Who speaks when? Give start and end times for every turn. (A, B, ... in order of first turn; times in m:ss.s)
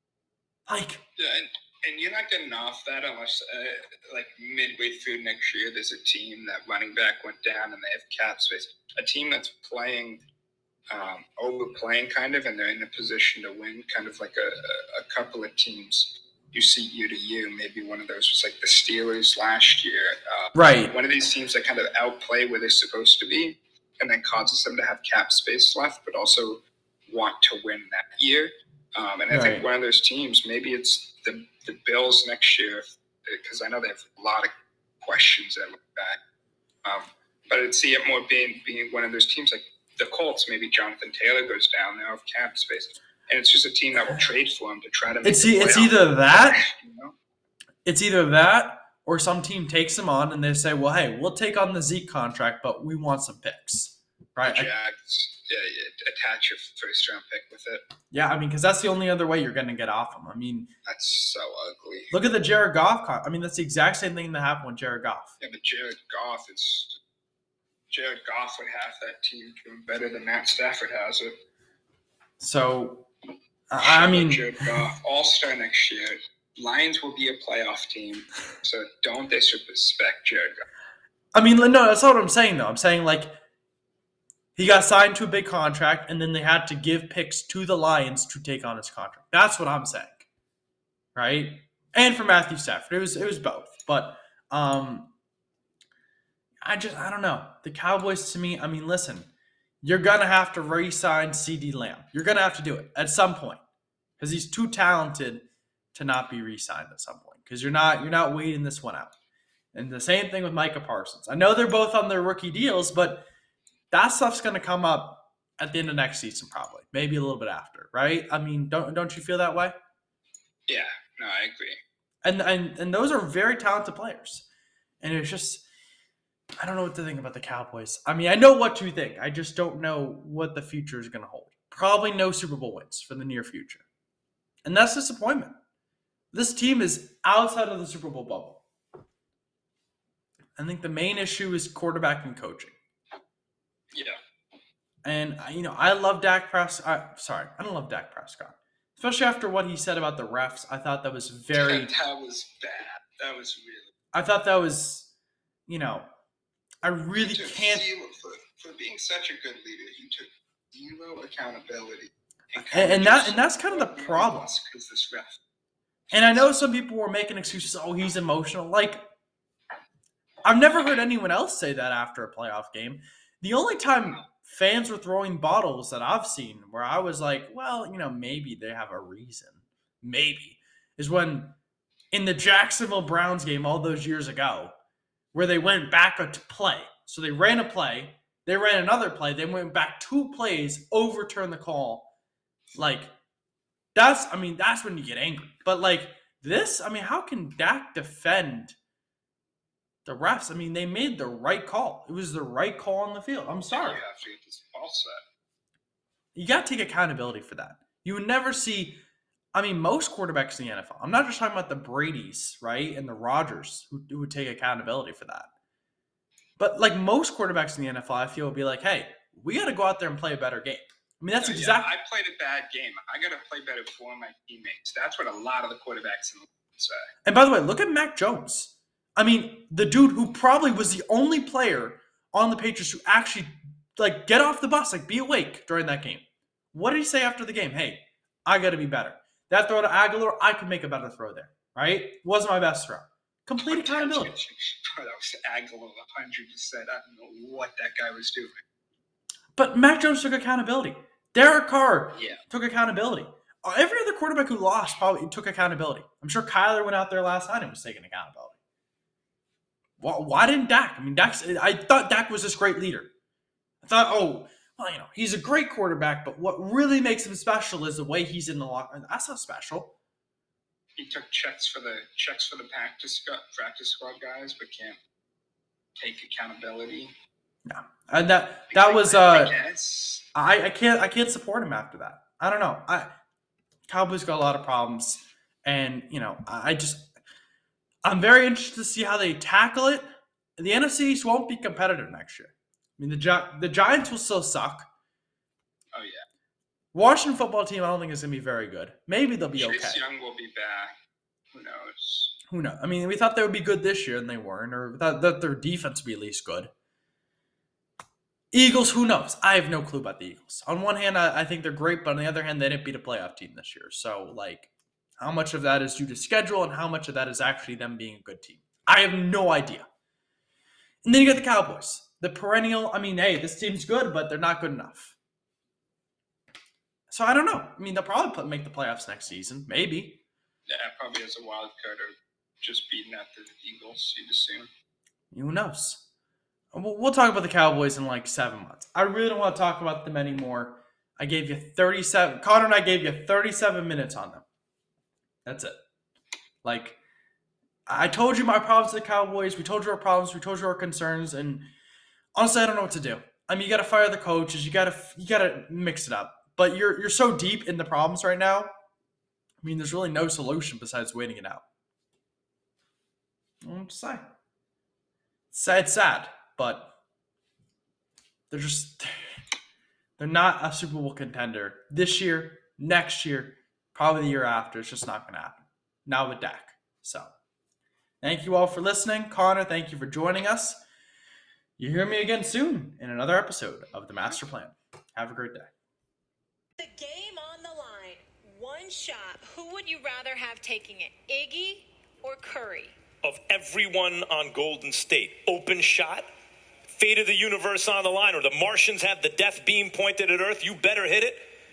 0:00.7-0:01.0 A
0:01.2-0:10.2 B
0:10.9-0:34.5 B
0:20.6-0:20.9 A
0:29.3-0:29.6 A
0:35.0-0:36.2 B
0:36.8-0:47.2 B
0:45.2-0:46.6 A
0:47.8-0:54.7 A
0:54.4-0:57.9 B
0:58.1-1:00.7 A
1:00.9-1:02.2 B
1:02.1-1:05.4 A
1:05.4-1:07.0 B
1:07.9-1:11.3 B
1:12.4-1:13.1 A
1:13.7-1:14.5 A
1:13.8-1:20.6 B
1:21.3-1:23.4 A
1:24.6-1:30.3 A
1:31.2-1:35.1 A
1:36.6-1:39.3 A
1:39.8-1:43.6 A
1:44.2-1:49.1 A
1:49.7-1:53.2 A
1:53.9-1:59.8 A
2:00.7-2:01.8 B
2:02.2-2:04.5 A
2:05.0-2:05.6 A
2:06.6-2:13.8 A
2:14.6-2:15.6 A
2:16.3-2:18.6 A
2:20.6-2:22.8 A
2:25.0-2:31.9 A
2:31.5-2:33.9 B
2:34.1-2:35.1 A
2:35.7-2:36.1 A
2:36.8-2:37.9 A
2:37.2-2:45.4 B
2:42.6-2:44.5 A
2:46.1-2:46.6 B
2:46.1-2:49.0 A
2:50.4-3:01.6 A
3:02.1-3:04.8 A
3:05.3-3:12.1 A
3:12.8-3:13.1 A
3:14.0-3:18.8 A
3:20.0-3:24.0 A
3:23.7-3:25.2 B
3:26.4-3:29.0 A
3:29.5-3:35.5 A
3:36.6-3:41.9 A
3:41.4-3:47.0 B
3:47.2-4:04.3 A
4:03.6-4:08.6 B
4:09.6-4:18.6 A
4:12.1-4:12.4 B
4:20.0-4:23.1 A
4:23.8-4:30.0 A
4:31.0-4:35.0 B
4:36.0-4:37.1 B
4:37.7-4:39.6 A
4:38.7-4:40.2 B
4:40.3-4:43.1 A
4:43.9-4:47.1 A
4:48.0-4:54.9 A
4:55.9-4:56.2 B
4:56.9-5:00.0 A
4:59.6-5:01.0 B
5:01.5-5:02.4 B
5:02.5-5:06.7 A
5:08.5-5:19.9 A
5:21.0-5:25.2 A
5:27.1-5:30.2 A
5:30.7-5:34.7 B
5:35.3-5:36.0 A
5:36.7-5:44.4 A
5:45.4-5:45.8 A
5:46.6-5:47.0 A
5:47.9-5:51.7 A
5:52.4-5:58.7 A
5:59.6-6:01.6 A
6:03.6-6:04.2 A
6:05.5-6:07.0 A
6:08.5-6:09.4 A
6:10.2-6:17.3 A
6:18.2-6:20.8 A
6:21.8-6:25.7 A
6:26.8-6:33.0 C
6:33.2-6:36.3 D
6:36.9-6:41.4 D